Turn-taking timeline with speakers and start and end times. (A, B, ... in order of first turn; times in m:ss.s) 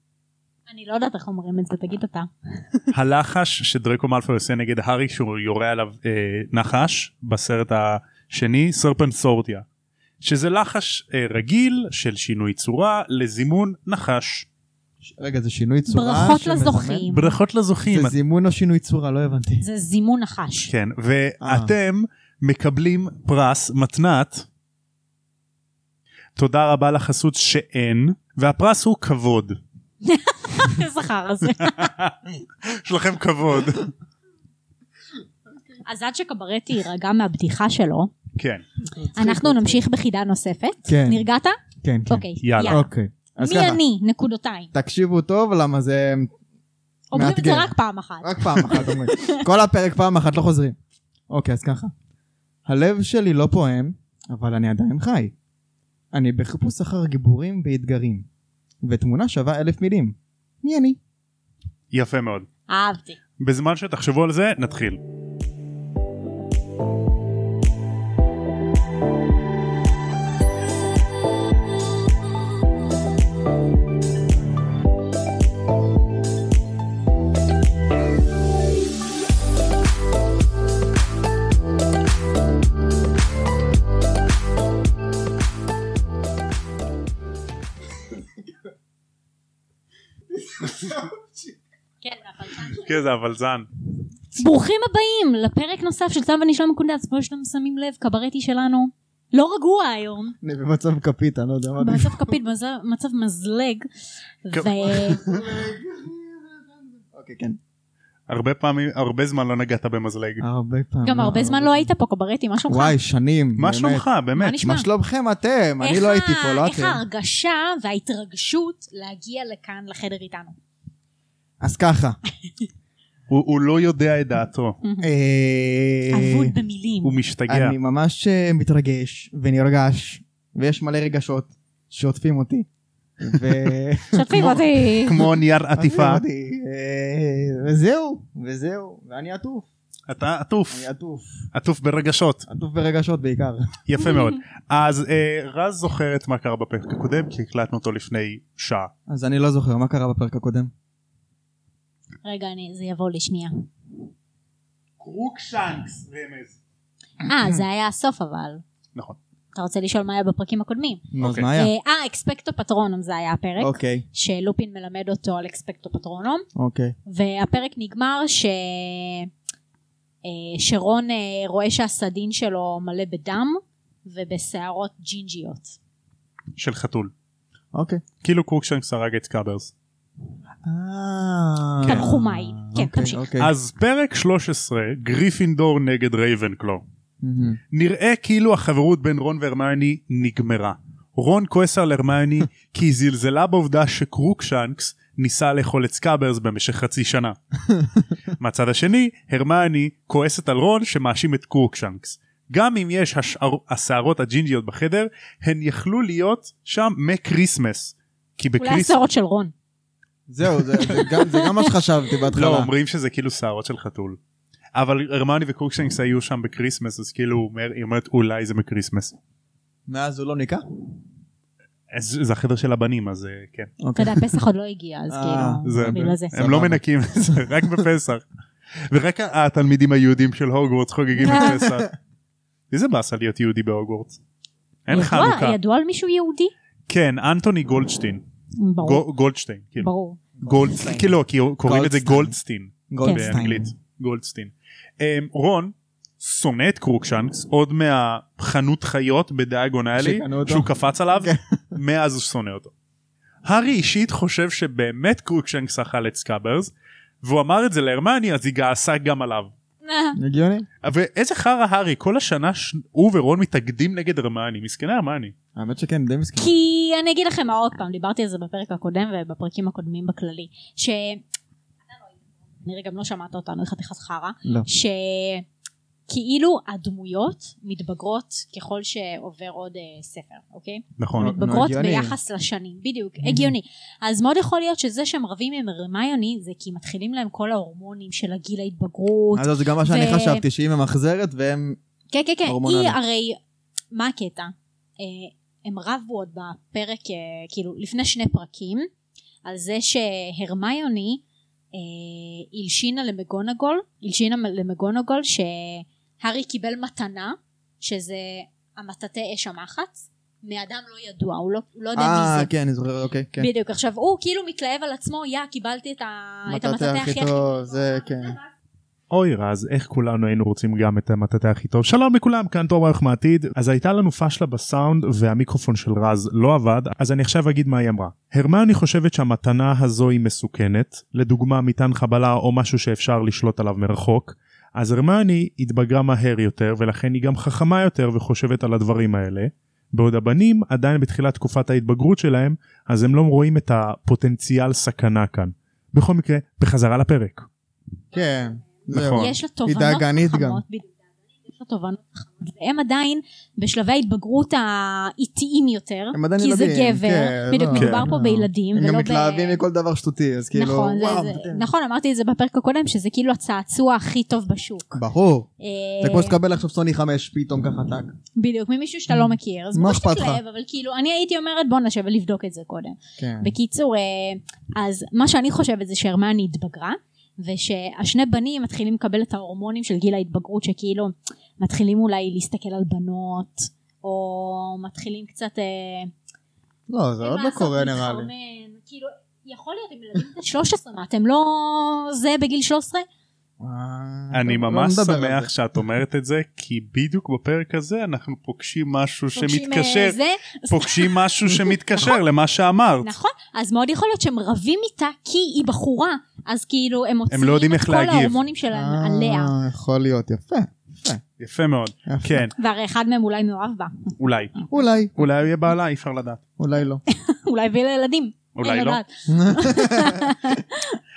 0:00.7-0:02.3 A
0:02.9-0:09.7 B
0:10.2-0:14.5 B
0:15.0-0:17.1 C
0:15.9-0:17.4 A
0:17.1-0:18.2 B
0:17.9-0:19.6 C
0:19.6-0:20.7 A
0:20.7-0:24.5 B
0:21.4-0:21.7 C
0:26.4-0:29.6 B
0:30.0-0:32.0 A
0:31.6-0:33.9 B
0:35.8-0:38.1 A
0:38.4-0:38.6 B
0:39.0-0:39.8 C
0:39.1-0:41.6 A
0:40.9-0:41.3 C
0:41.8-0:43.8 C
0:42.1-0:42.9 A
0:42.4-0:42.8 B
0:43.4-0:44.7 A
0:44.7-0:46.3 C
0:47.1-0:49.5 A
0:47.1-0:50.8 C
0:51.3-0:51.9 C
0:52.7-0:55.3 C
0:56.1-0:58.3 C
0:58.8-1:01.0 C
1:01.9-1:02.5 B
1:02.7-1:03.2 A
1:03.4-1:05.0 B
1:30.3-1:31.6 C
1:32.0-1:32.9 A
1:32.7-1:33.7 B
1:34.3-1:40.4 A
1:40.4-1:42.3 C
1:41.8-1:43.9 A
1:44.4-1:45.2 A
1:44.5-1:45.3 B
1:44.8-1:47.6 C
1:48.3-1:50.4 B
1:50.4-1:51.9 C
1:51.0-1:53.0 A
1:52.7-1:54.0 C
1:53.6-1:54.6 B
1:54.4-1:54.9 A
1:54.6-1:57.0 C
1:55.8-2:00.6 A
2:01.6-2:02.2 C
2:03.3-2:04.8 B
2:04.8-2:05.1 A
2:05.0-2:06.6 C
2:06.1-2:07.2 A
2:07.0-2:07.8 B
2:07.5-2:12.7 C
2:13.2-2:14.6 C
2:14.1-2:15.3 A
2:14.3-2:16.2 B
2:15.8-2:19.7 C
2:20.1-2:20.8 B
2:20.7-2:21.3 C
2:21.5-2:22.4 B
2:22.5-2:23.7 C
2:23.9-2:28.9 B
2:29.1-2:30.7 C
2:32.2-2:33.6 A
2:35.0-2:36.6 B
2:37.2-2:38.6 A
2:39.5-2:46.5 A
2:41.1-2:41.7 C
2:41.2-2:41.5 B
2:43.6-2:44.0 C
2:46.6-2:47.0 C
2:47.1-2:49.3 A
2:50.2-2:55.8 A
2:56.6-2:57.1 B
2:57.7-2:58.0 C
2:58.2-2:59.7 B
3:00.6-3:03.5 C
3:01.9-3:03.3 A
3:03.4-3:06.8 B
3:07.2-3:07.6 C
3:07.7-3:17.4 B
3:18.4-3:29.0 B
3:28.6-3:29.5 A
3:30.3-3:32.7 C
3:30.8-3:31.7 A
3:32.4-3:34.2 B
3:34.8-3:39.2 B
3:39.9-3:40.6 C
3:41.9-3:43.7 B
3:43.8-3:44.4 C
3:44.0-3:46.4 A
3:45.1-3:47.6 C
3:45.6-3:48.2 B
3:48.8-3:51.9 B
3:51.2-3:51.9 C
3:51.2-3:51.6 A
3:52.7-3:54.2 B
3:54.9-3:55.6 B
3:54.9-3:56.5 A
3:56.9-3:58.2 B
3:58.6-3:59.1 A
3:58.8-3:59.9 B
3:59.8-4:00.2 A
4:00.4-4:02.4 C
4:00.4-4:12.7 B
4:02.9-4:03.7 C
4:03.0-4:03.4 A
4:10.0-4:11.8 C
4:13.4-4:19.5 B
4:19.8-4:20.2 A
4:20.2-4:20.7 C
4:20.8-4:25.4 B
4:25.6-4:26.5 C
4:26.4-4:31.2 A
4:32.6-4:35.4 A
4:36.1-4:50.4 A
4:41.0-4:41.4 B
4:41.2-4:42.2 C
4:43.2-4:43.5 C
4:49.3-4:51.8 C
4:52.1-4:53.4 A
4:52.5-4:53.0 C
4:53.9-4:58.9 A
4:59.4-5:01.2 A
5:01.7-5:12.5 A
5:12.0-5:13.5 C
5:13.4-5:18.2 A
5:16.5-5:18.4 C
5:19.1-5:47.5 B
5:48.1-5:50.6 C
5:48.9-5:49.3 B
5:49.0-5:50.9 A
5:51.4-5:59.6 A
5:56.1-6:01.7 C
5:57.7-5:58.1 B
6:00.6-6:05.0 A
6:05.0-6:05.5 C
6:05.6-6:06.4 A
6:06.0-6:08.1 C
6:08.4-6:26.1 A
6:09.1-6:10.4 C
6:13.2-6:13.5 C
6:26.9-6:28.3 C
6:27.2-6:33.1 A
6:33.6-6:35.5 C
6:34.3-6:40.2 B
6:39.4-6:42.2 A
6:40.7-6:43.1 B
6:43.0-6:49.5 A
6:47.3-6:48.4 B
6:48.7-6:51.2 C
6:51.4-6:52.5 B
6:52.1-6:52.5 C
6:52.6-6:54.2 A
6:54.2-6:54.6 B
6:54.7-6:55.1 C
6:55.2-6:56.4 B
6:56.6-6:57.0 C
6:57.1-7:01.0 A
6:58.6-6:59.0 B
6:59.3-7:00.6 C